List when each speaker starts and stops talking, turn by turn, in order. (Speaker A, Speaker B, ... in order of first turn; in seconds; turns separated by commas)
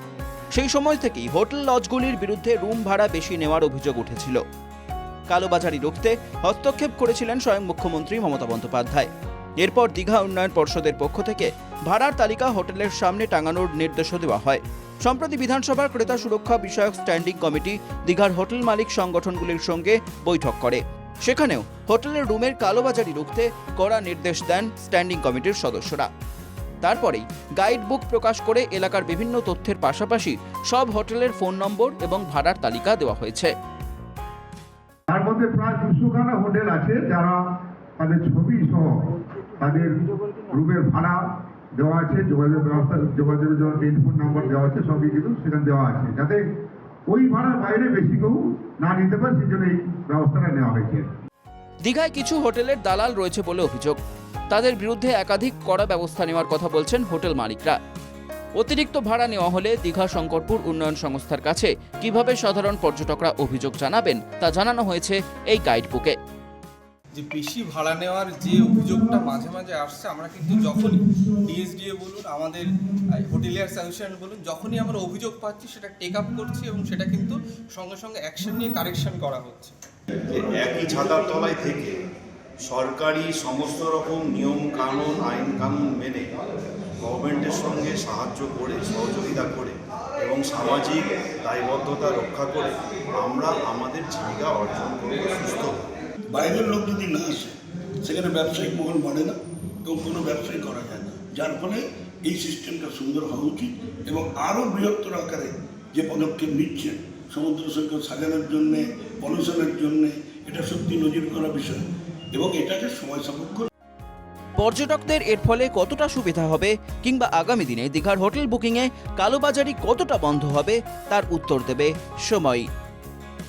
Speaker A: 0.5-4.4, Speaker A: 5.3-26.1, Speaker A: 26.8-33.5, Speaker B: 35.1-37.4, Speaker B: 38.0-39.0, Speaker B: 39.6-39.9, Speaker B: 40.5-41.2, Speaker B: 41.8-46.4, Speaker B: 47.1-51.0, Speaker A: 51.8-54.0, Speaker A: 54.5-57.8, Speaker A: 58.6-66.2, Speaker C: 67.1-79.8, Speaker D: 80.3-82.0, Speaker D: 82.6-86.3, Speaker D: 87.0-95.8, Speaker E: 96.3-113.7, Speaker A: 114.6-122.7